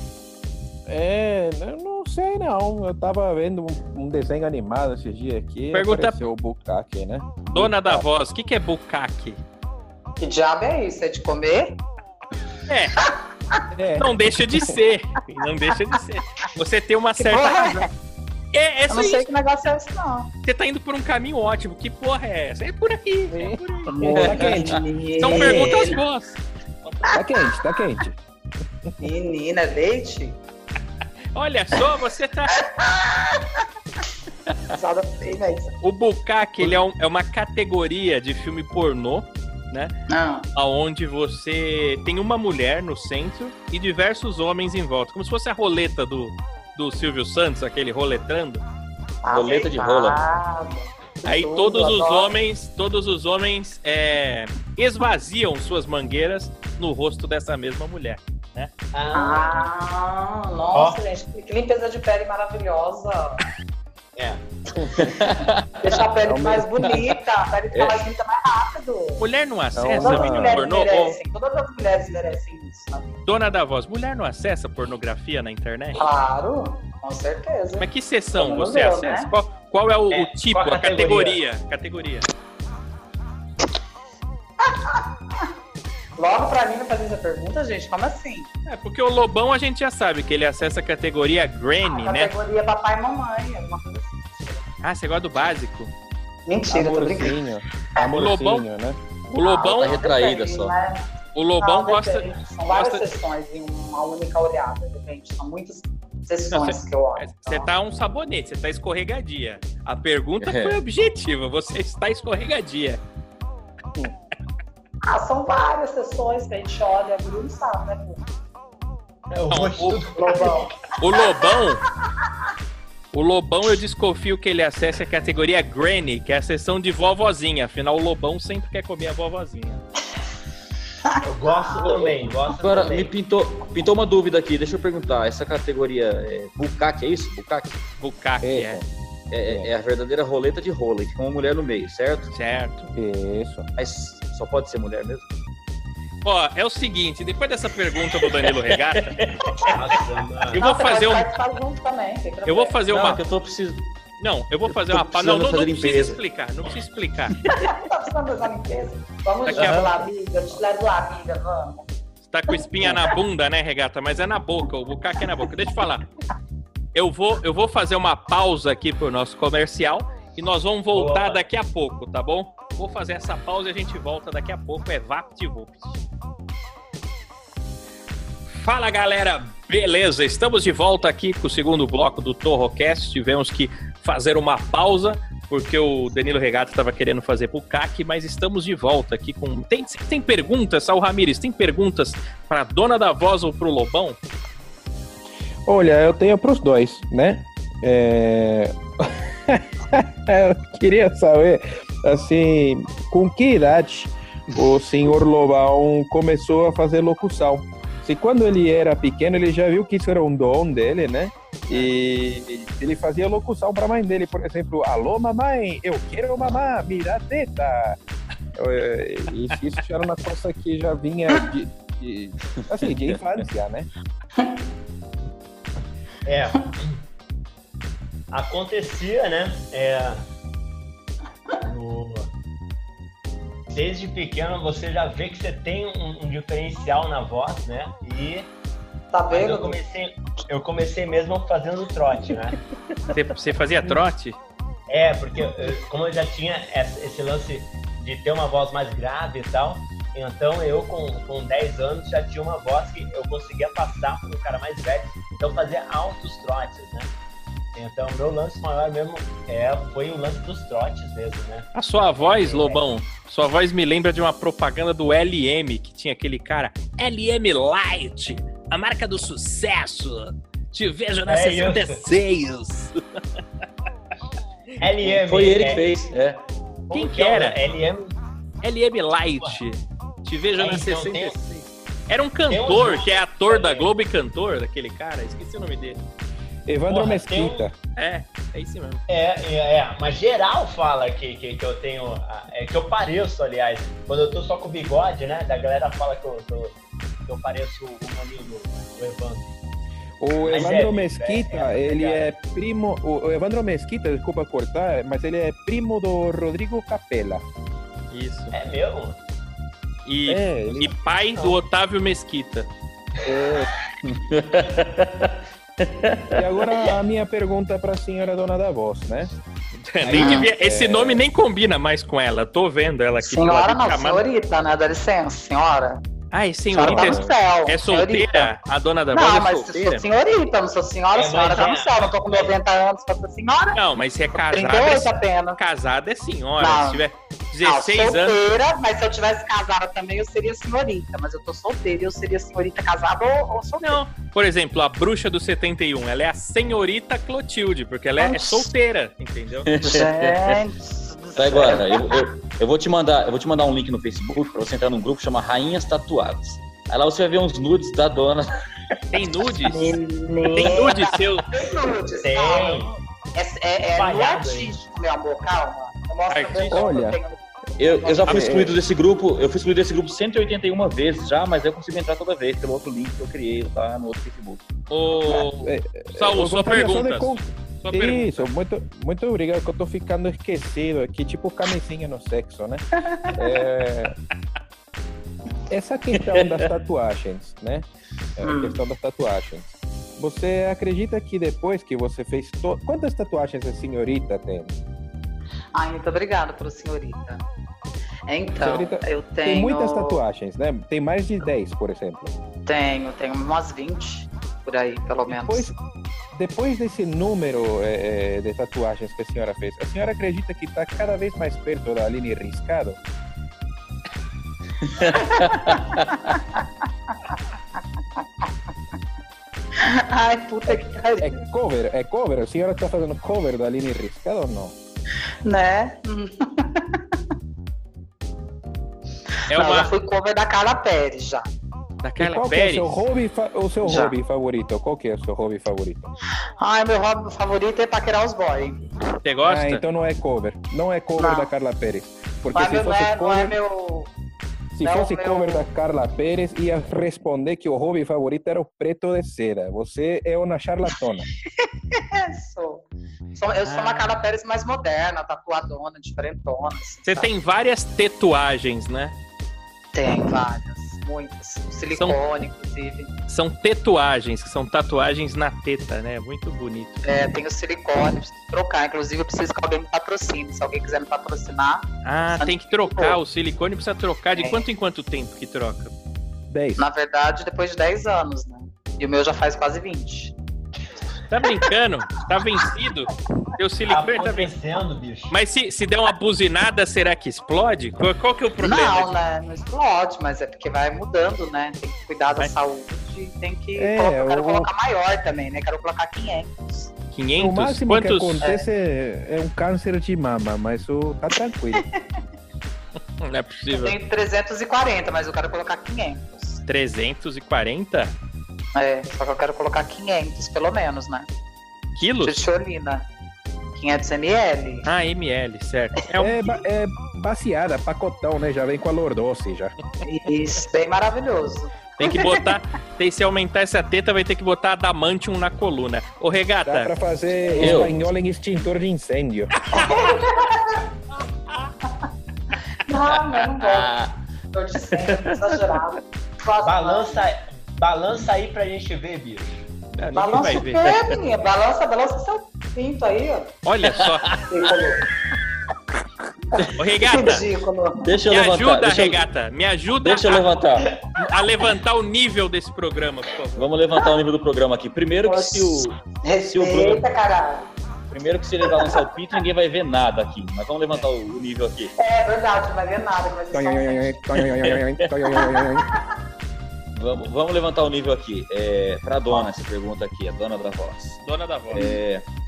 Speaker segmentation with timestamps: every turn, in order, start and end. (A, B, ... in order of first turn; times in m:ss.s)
0:00.9-0:08.0 A
0:05.7-0:06.2 B
0:07.5-0:09.4 B
0:10.2-0:11.8 C
0:12.7-0:13.1 B
0:13.7-0:14.8 A
0:14.0-0:17.9 B
0:17.2-0:17.9 C
0:18.5-0:19.3 B
0:18.9-0:20.3 C
0:20.4-0:24.0 B
0:23.3-0:25.8 A
0:23.9-0:26.0 C
0:24.1-0:24.8 D
0:25.2-0:27.2 B
0:27.1-0:28.2 A
0:29.0-0:30.4 C
0:31.3-0:32.6 B
0:32.6-0:33.6 C
0:34.7-0:35.7 C
0:35.8-0:39.9 B
0:40.1-0:40.5 C
0:40.5-0:48.6 B
0:49.2-0:52.3 C
0:49.3-0:50.2 D
0:51.2-0:58.7 B
0:58.9-0:59.6 E
0:59.1-1:03.4 C
1:00.7-1:01.0 E
1:04.2-1:04.4 E
1:05.0-1:05.9 D
1:05.8-1:09.2 C
1:06.2-1:06.9 A
1:07.7-1:08.0 D
1:09.2-1:11.2 B
1:09.7-1:10.6 A
1:10.0-1:13.2 C
1:13.2-1:16.0 B
1:16.0-1:19.3 C
1:17.8-1:22.3 B
1:20.1-1:21.4 E
1:24.6-1:25.5 C
1:26.2-1:28.5 C
1:28.6-1:32.3 B
1:31.8-1:34.6 C
1:34.8-1:35.9 B
1:36.4-1:37.4 C
1:36.7-1:39.0 A
1:38.1-1:38.6 B
1:39.3-1:40.0 B
1:39.4-1:47.7 C
1:39.6-1:40.8 D
1:41.3-1:43.0 B
1:46.5-1:53.0 B
1:50.4-1:50.8 D
1:55.0-1:58.3 C
1:59.3-2:00.9 E
1:59.5-2:00.0 B
2:00.2-2:01.4 C
2:01.0-2:01.8 B
2:03.1-2:09.8 B
2:11.0-2:12.1 C
2:11.2-2:13.1 E
2:12.6-2:17.8 D
2:18.0-2:18.8 B
2:18.4-2:18.8 A
2:19.3-2:22.3 D
2:22.3-2:22.9 B
2:22.9-2:23.7 A
2:23.8-2:25.3 D
2:26.2-2:29.8 B
2:27.9-2:30.0 D
2:29.7-2:30.6 E
2:30.5-2:31.3 B
2:30.6-2:32.8 C
2:32.4-2:33.2 B
2:32.9-2:33.8 D
2:34.2-2:37.4 B
2:34.7-2:36.2 D
2:37.5-2:41.9 C
2:39.4-2:40.0 B
2:39.5-2:39.9 D
2:42.3-2:46.1 B
2:42.5-2:43.1 C
2:46.9-2:56.0 B
2:50.9-2:51.4 E
2:58.5-3:14.2 B
3:15.6-3:38.0 A
3:38.6-3:43.9 A
3:42.7-3:43.2 D
3:46.2-3:47.0 E
3:48.3-3:50.2 E
3:51.6-3:52.3 E
3:53.7-3:58.5 E
3:59.1-3:59.8 C
3:59.3-4:02.6 E
4:03.1-4:04.4 B
4:04.9-4:17.1 E
4:17.7-4:22.8 E
4:21.7-4:33.0 B
4:31.3-4:32.0 E
4:34.8-4:35.9 E
4:35.1-4:36.4 D
4:36.9-4:38.2 E
4:36.9-4:37.6 B
4:38.6-4:46.0 B
4:40.6-4:41.4 E
4:42.5-4:43.9 E
4:46.7-4:47.7 A
4:46.9-4:47.7 E
4:48.0-4:49.0 B
4:49.1-4:59.6 E
5:00.2-5:07.4 A
5:00.4-5:02.3 E
5:08.1-5:08.5 B
5:08.5-5:09.2 E
5:10.0-5:12.7 B
5:10.2-5:10.9 A
5:13.2-5:13.7 A
5:14.0-5:16.4 D
5:16.3-5:19.3 A
5:19.7-5:24.2 B
5:20.0-5:20.5 E
5:20.1-5:20.5 C
5:20.6-5:21.2 A
5:23.2-5:26.0 C
5:26.3-5:30.0 B
5:26.7-5:28.5 C
5:26.8-5:27.3 A
5:29.1-5:33.8 C
5:31.1-5:32.6 E
5:33.7-5:38.4 B
5:34.3-5:35.6 C
5:36.6-5:37.0 C
5:37.6-5:44.0 C
5:43.8-5:49.7 B
5:48.2-5:48.7 C
5:49.6-5:50.6 D
5:49.8-5:52.2 C
5:51.4-5:58.5 D
5:59.1-6:00.0 B
5:59.6-6:08.6 C
6:00.5-6:01.5 B
6:02.2-6:02.9 E
6:03.9-6:04.8 E
6:06.3-6:06.8 B
6:06.7-6:07.2 A
6:07.8-6:14.7 D
6:08.2-6:08.8 A
6:14.9-6:18.5 B
6:15.3-6:24.2 A
6:23.0-6:23.4 C
6:25.7-6:27.8 A
6:28.4-6:34.7 A
6:28.4-6:28.8 C
6:35.7-6:37.4 C
6:38.3-6:40.2 C
6:38.6-6:42.3 A
6:42.6-6:45.7 C
6:45.3-6:45.7 A
6:46.3-6:53.0 A
6:54.8-6:56.4 D
6:55.1-6:56.6 C
6:59.8-7:01.3 C
7:01.2-7:04.7 A
7:05.4-7:07.0 C
7:09.5-7:11.5 C
7:09.5-7:09.9 B
7:12.0-7:13.0 B
7:12.2-7:16.1 A
7:13.8-7:14.1 C
7:16.6-7:18.8 C
7:19.2-7:19.8 B
7:19.4-7:23.5 A
7:21.2-7:21.5 C
7:22.5-7:24.1 C
7:24.7-7:31.3 A
7:24.8-7:25.7 C
7:31.9-7:37.3 C
7:33.6-7:34.2 B
7:37.0-7:39.2 B
7:39.9-7:43.1 C
7:43.3-7:47.0 B
7:47.0-7:53.2 C
7:52.0-7:55.9 B
7:54.4-7:54.6 C
7:56.5-7:56.8 A
7:56.8-8:00.3 C
8:01.3-8:04.5 B
8:03.9-8:05.4 E
8:05.3-8:09.2 B
8:08.6-8:16.9 C
8:13.8-8:14.7 A
8:17.1-8:18.4 B
8:17.4-8:21.8 A
8:23.2-8:24.0 B
8:23.7-8:26.6 C
8:26.6-8:28.1 B
8:28.7-8:31.3 C
8:32.0-8:32.4 B
8:32.2-8:33.0 C
8:33.7-8:34.9 C
8:34.8-8:36.6 B
8:36.2-8:39.7 A
8:40.0-8:42.5 C
8:42.0-8:46.9 B
8:46.6-8:49.6 A
8:47.3-8:47.8 C
8:47.6-8:47.9 D
8:49.7-8:50.2 B
8:49.7-8:50.8 C
8:52.8-8:53.9 C
8:53.1-8:54.1 D
8:54.5-8:57.3 C
8:54.9-8:55.2 D
8:56.6-8:59.7 E
8:59.9-9:00.8 B
9:00.1-9:03.5 C
9:00.6-9:01.2 D
9:03.6-9:04.4 B
9:03.8-9:04.3 D
9:04.5-9:05.0 C
9:06.5-9:08.1 C
9:06.8-9:07.4 B
9:08.0-9:09.2 D
9:08.3-9:10.6 B
9:10.0-9:11.0 D
9:11.2-9:13.7 B
9:13.6-9:16.0 D
9:15.2-9:17.7 C
9:16.5-9:17.1 D
9:18.1-9:21.9 D
9:18.6-9:19.1 C
9:22.0-9:24.3 C
9:23.5-9:25.9 A
9:25.4-9:26.0 C
9:26.9-9:32.2 D
9:31.2-9:31.8 B
9:31.7-9:32.0 C